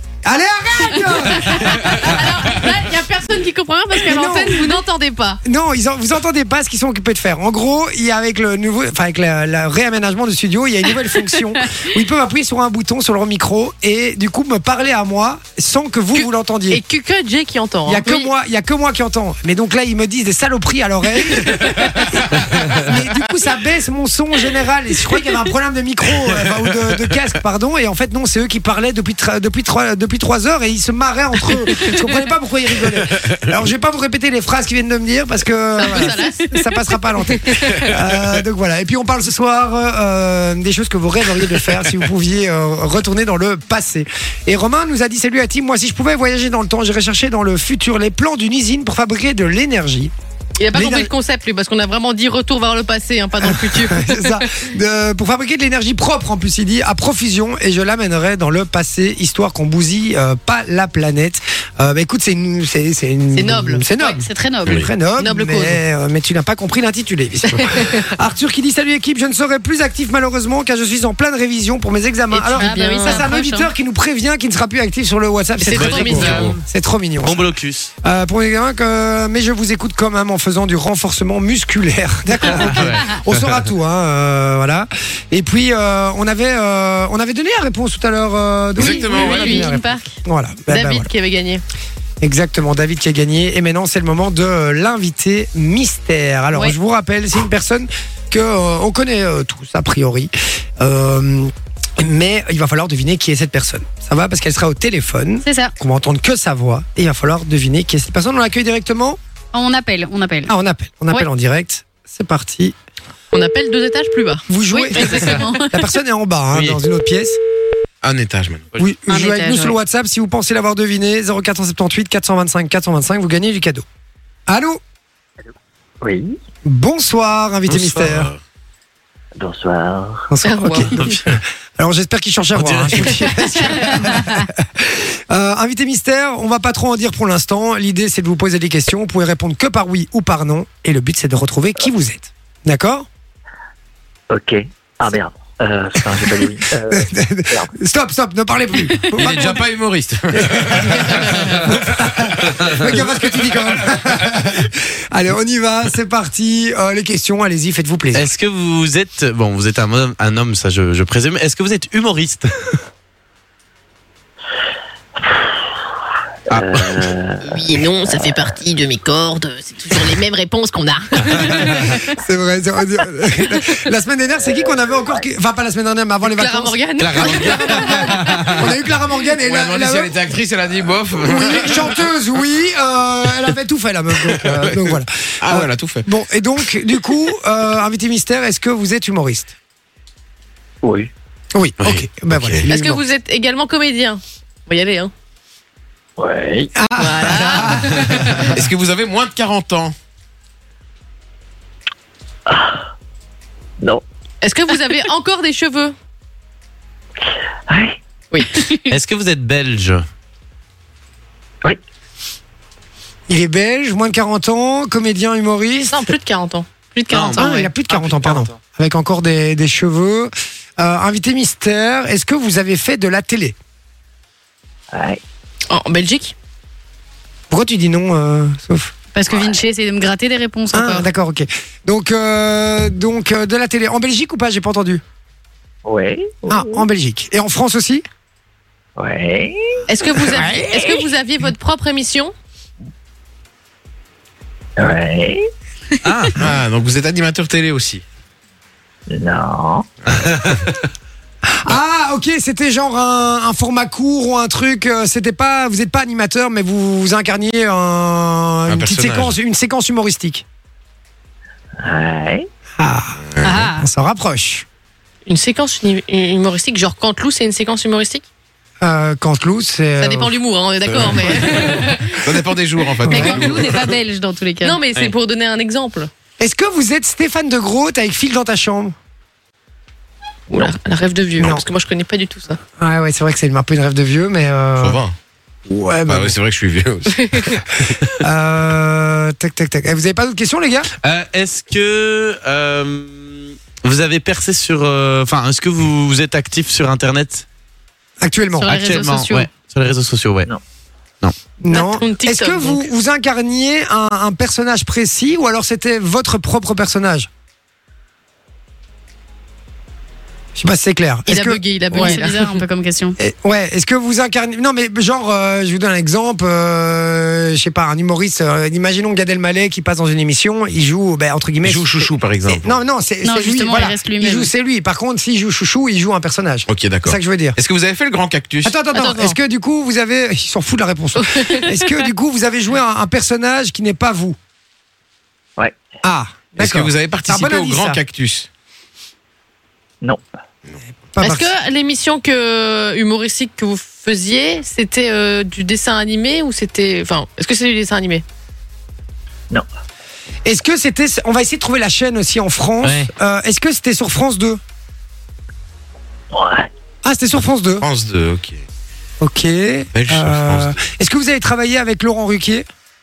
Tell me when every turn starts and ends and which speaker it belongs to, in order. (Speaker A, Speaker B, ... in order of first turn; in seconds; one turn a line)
Speaker A: 0.2-2.3
Speaker B: 1.5-5.4
Speaker A: 4.0-4.8
Speaker A: 5.4-16.8
Speaker B: 16.1-18.3
Speaker A: 17.9-50.1
Speaker B: 35.8-37.9
Speaker B: 50.6-54.6
Speaker A: 50.7-51.1
Speaker A: 53.4-77.5
Speaker B: 63.3-63.9
Speaker C: 64.0-64.8
Speaker B: 65.2-65.8
Speaker B: 67.6-68.0
Speaker B: 72.3-73.3
Speaker C: 72.4-73.7
Speaker B: 75.6-76.6
Speaker D: 75.7-76.6
Speaker D: 77.2-77.9
Speaker A: 78.0-91.1
Speaker D: 82.5-83.2
Speaker E: 88.8-89.7
Speaker B: 88.8-90.0
Speaker C: 89.4-90.0
Speaker B: 90.7-91.6
Speaker A: 92.2-109.2
Speaker C: 105.4-105.7
Speaker C: 109.5-110.5
Speaker A: 110.5-112.8
Speaker B: 113.3-115.4
Speaker A: 114.5-117.4
Speaker C: 114.7-115.8
Speaker D: 116.5-116.8
Speaker E: 118.0-118.8
Speaker A: 118.8-123.8
Speaker C: 119.1-119.8
Speaker A: 124.5-124.8
Speaker F: 126.0-126.4
Speaker A: 126.7-128.3
Speaker E: 127.7-128.4
Speaker F: 129.4-130.3
Speaker A: 130.3-143.1
Speaker B: 130.4-131.2
Speaker D: 131.0-131.3
Speaker D: 132.5-133.3
Speaker C: 133.7-134.4
Speaker F: 144.3-147.7
Speaker A: 146.9-149.7
Speaker E: 149.1-151.7
Speaker A: 150.3-158.3
Speaker D: 158.1-162.5
Speaker F: 166.5-168.6
Speaker B: 167.4-172.1
Speaker A: 172.2-180.2
Speaker F: 174.4-175.3
Speaker B: 176.2-178.6
Speaker D: 177.1-177.3
Speaker E: 177.1-177.5
Speaker E: 179.4-182.0
Speaker A: 181.2-189.5
Speaker E: 185.4-186.1
Speaker F: 190.8-191.1
Speaker A: 191.5-193.0
Speaker E: 191.8-192.7
Speaker B: 192.7-195.1
Speaker F: 196.2-196.7
Speaker A: 196.8-198.6
Speaker B: 197.0-198.5
Speaker E: 198.5-199.9
Speaker F: 202.5-202.9
Speaker B: 204.4-205.9
Speaker F: 207.7-208.0
Speaker B: 208.3-208.7
Speaker C: 208.6-208.9
Speaker D: 208.9-210.0
Speaker A: 213.3-216.1
Speaker B: 215.9-217.7
Speaker D: 217.1-218.6
Speaker A: 217.4-223.6
Speaker F: 224.9-225.2
Speaker B: 225.7-226.3
Speaker A: 227.5-228.9
Speaker C: 229.1-231.1
Speaker F: 229.3-229.6
Speaker A: 230.7-235.0
Speaker F: 235.8-236.9
Speaker A: 236.5-238.1
Speaker F: 239.0-239.8
Speaker B: 239.9-242.3
Speaker A: 240.3-240.7
Speaker F: 240.7-241.1
Speaker F: 244.8-245.4
Speaker D: 246.0-246.4
Speaker E: 246.3-248.0
Speaker F: 249.1-249.9
Speaker E: 250.1-250.3
Speaker A: 251.4-260.4
Speaker E: 258.7-259.4
Speaker F: 261.8-262.5
Speaker A: 262.8-264.6
Speaker E: 263.4-263.6
Speaker C: 263.4-263.9
Speaker B: 265.3-268.2
Speaker A: 268.8-270.4
Speaker B: 270.0-272.2
Speaker E: 270.9-273.9
Speaker A: 273.1-273.4
Speaker C: 273.1-274.8
Speaker B: 274.6-276.1
Speaker A: 276.4-278.9
Speaker B: 280.5-282.6
Speaker A: 281.4-281.7
Speaker A: 282.8-285.0
Speaker E: 284.8-285.1
Speaker A: 285.7-286.4
Speaker E: 286.1-288.0
Speaker A: 288.2-290.9
Speaker D: 291.0-297.4
Speaker A: 298.2-298.7
Speaker B: 298.6-299.4
Speaker D: 298.7-300.5
Speaker A: 301.6-307.3
Speaker B: 301.7-302.9
Speaker A: 310.6-312.2
Speaker B: 311.3-312.6
Speaker C: 311.9-313.2
Speaker A: 313.2-327.6
Speaker E: 321.6-322.8
Speaker C: 323.2-324.5
Speaker E: 326.7-328.8
Speaker A: 328.6-334.4
Speaker B: 328.9-329.4
Speaker B: 331.2-331.9
Speaker A: 336.0-338.0
Speaker E: 336.6-338.5
Speaker A: 341.1-341.5
Speaker B: 341.2-348.2
Speaker A: 350.4-354.6
Speaker F: 356.3-356.7
Speaker A: 357.0-357.9
Speaker E: 357.8-358.6
Speaker A: 359.2-362.7
Speaker E: 359.9-360.8